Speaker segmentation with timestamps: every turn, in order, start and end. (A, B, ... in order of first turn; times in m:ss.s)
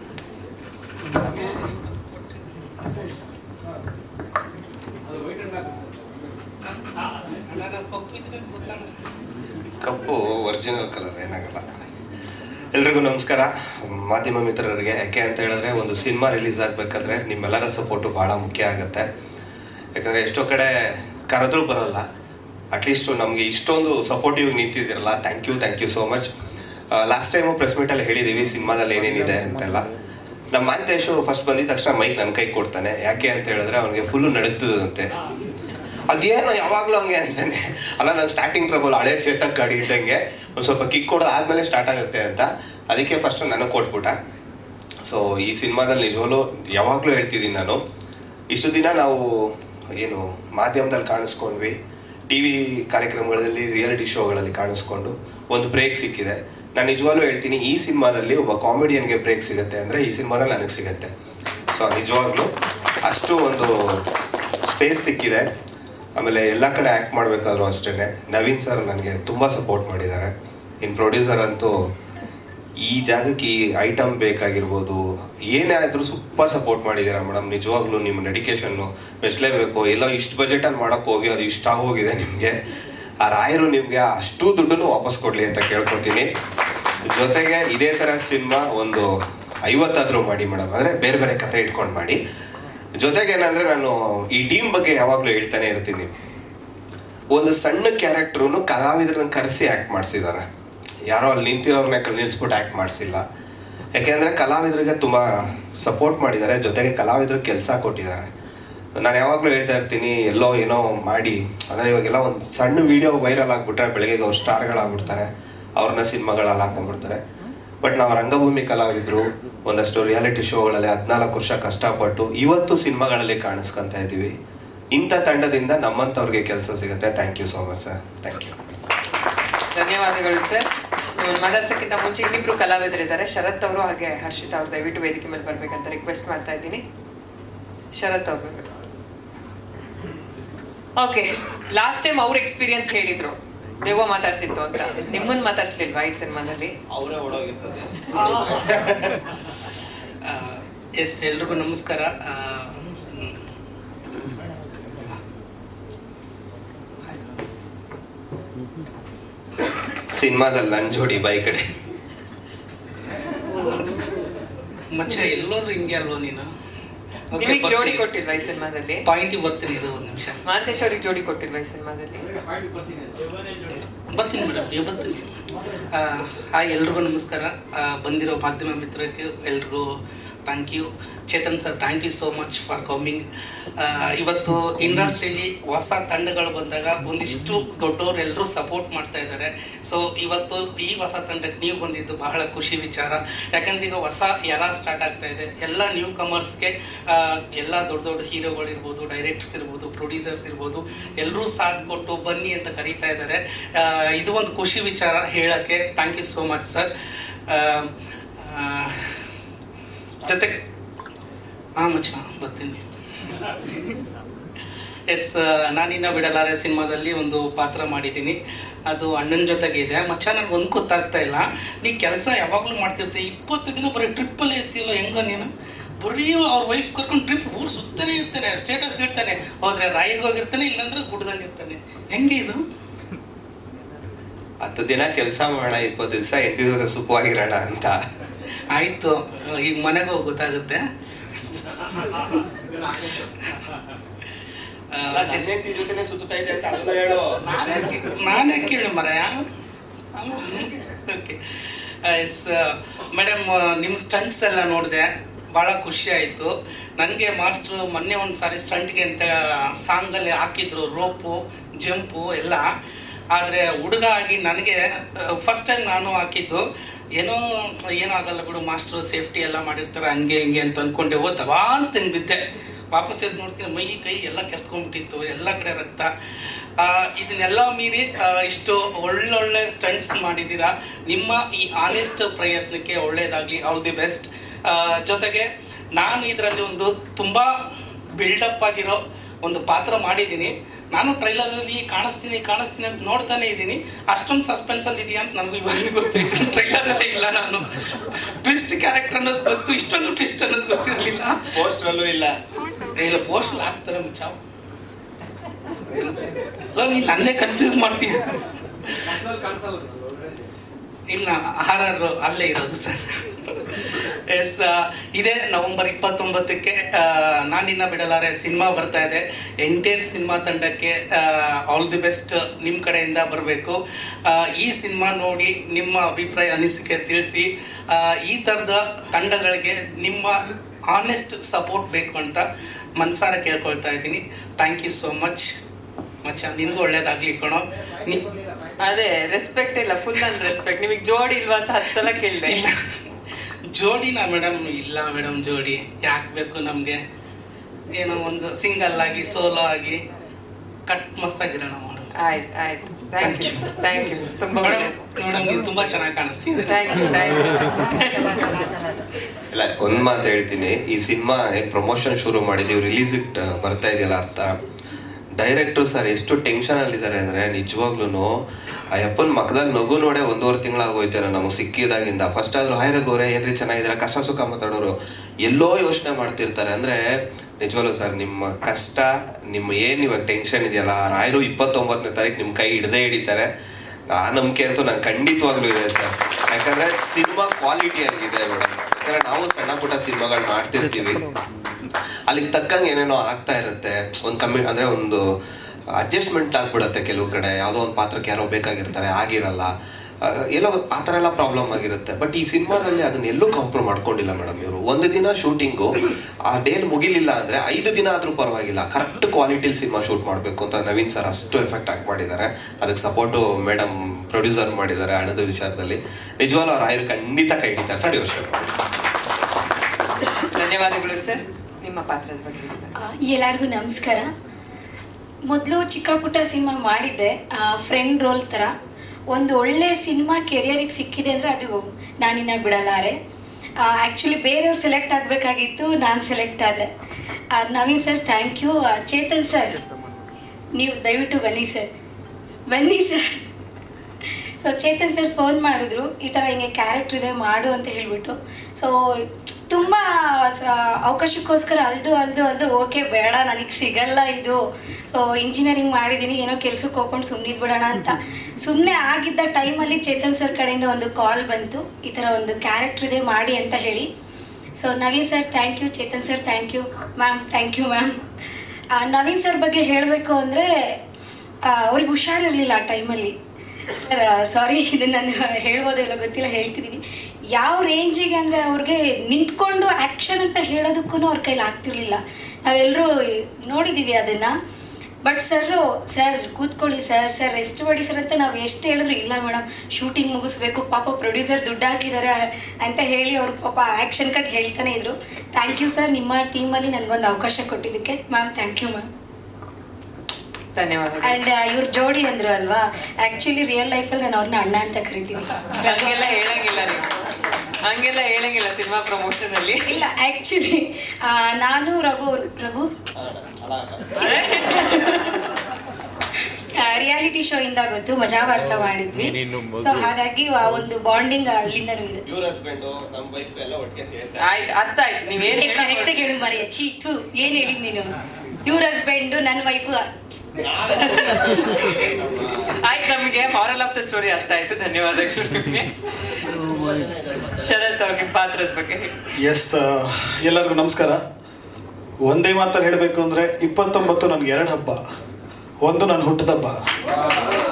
0:01.2-0:01.6 A
0:07.5-0:09.0 B
0:09.8-0:11.6 A
0:12.7-0:19.1 A
0:20.0-0:22.1 A
0:22.7-0:26.3 A
0:26.9-0:29.8 A
0:30.5-0:35.1 A
0:36.1-0:44.2 A
0:45.0-0:47.8 A
0:48.5-0:49.2 A
0:50.0-0:51.7 A
0:52.3-1:01.1 A
1:01.7-1:02.5 A
1:03.0-1:04.0 A
1:04.7-1:05.4 A
1:06.2-1:11.7 A
1:12.8-1:22.6 A
1:23.2-1:26.3 A
1:27.1-1:29.1 A
1:29.6-1:32.2 A
1:33.0-1:36.1 A
1:37.3-1:40.4 A
1:41.1-1:43.2 A
1:44.0-1:48.3 A
1:49.0-1:57.2 A
1:57.8-2:04.3 A
2:04.9-2:08.6 A
2:09.8-2:16.8 C
2:17.9-2:18.6 C
2:21.0-2:26.7 C
2:26.9-2:29.1 A
2:30.3-2:33.4 B
2:40.1-2:41.6 A
2:44.9-2:46.5 B
2:47.3-2:48.0 B
2:47.4-2:49.0 C
2:49.1-2:50.4 B
2:50.4-2:52.3 C
2:53.7-2:55.3 B
2:55.9-2:59.9 B
3:00.5-3:03.2 B
3:03.8-3:26.9 B
3:27.5-3:29.2 B
3:30.2-3:30.6 B
3:31.8-3:32.8 B
3:35.1-3:38.4 B
3:38.9-3:52.6 B
3:54.6-3:58.0 A
3:58.7-4:00.8 B
4:04.9-4:05.5 B
4:05.1-4:07.7 A
4:07.5-4:09.4 B
4:10.2-4:22.7 B
4:23.3-4:26.7 B
4:27.2-4:47.5 B
4:48.2-5:01.5 B
5:01.5-5:02.4 A
5:03.0-5:04.4 B
5:06.0-5:08.2 B
5:11.1-5:35.5 B
5:36.2-5:38.3 B
5:38.8-5:42.7 C
5:42.5-5:42.7 B
5:43.7-5:47.0 B
5:47.9-5:50.0 B
5:50.9-5:52.1 B
5:52.2-5:55.0 C
5:53.2-5:53.7 B
5:54.6-5:57.4 B
5:56.7-5:58.6 C
5:59.5-6:04.6 A
6:05.4-6:08.3 A
6:08.9-6:17.0 A
6:17.6-6:23.5 A
6:24.1-6:31.2 A
6:32.3-6:35.2 A
6:36.0-6:39.7 A
6:40.2-6:46.0 A
6:46.5-6:58.6 A
7:00.4-7:02.9 C
7:03.0-7:04.3 D
7:05.5-7:08.7 D
7:09.3-7:13.2 D
7:13.9-7:16.9 D
7:17.6-7:19.8 D
7:20.8-7:21.9 D
7:22.7-7:23.5 D
7:24.6-7:28.9 D
7:29.7-7:34.6 D
7:35.1-7:44.1 D
7:44.8-7:48.1 D
7:49.0-7:50.6 D
7:51.7-7:53.3 D
7:53.9-7:57.0 D
7:57.6-8:03.1 D
8:03.6-8:04.5 D
8:05.2-8:19.0 D
8:20.8-8:21.4 C
8:21.2-8:26.3 D
8:25.8-8:27.1 C
8:27.8-8:29.8 C
8:29.9-8:32.9 D
8:33.2-8:34.2 A
8:34.2-8:35.4 D
8:34.2-8:35.4 C
8:36.6-8:42.2 D
8:42.3-8:44.6 A
8:44.4-8:46.4 C
8:45.6-8:48.1 D
8:48.6-8:50.0 D
8:50.7-8:52.5 A
8:51.0-8:52.1 D
8:52.6-8:56.6 C
8:57.4-8:59.2 C
8:59.4-9:01.2 E
9:02.2-9:05.0 E
9:05.8-9:06.8 E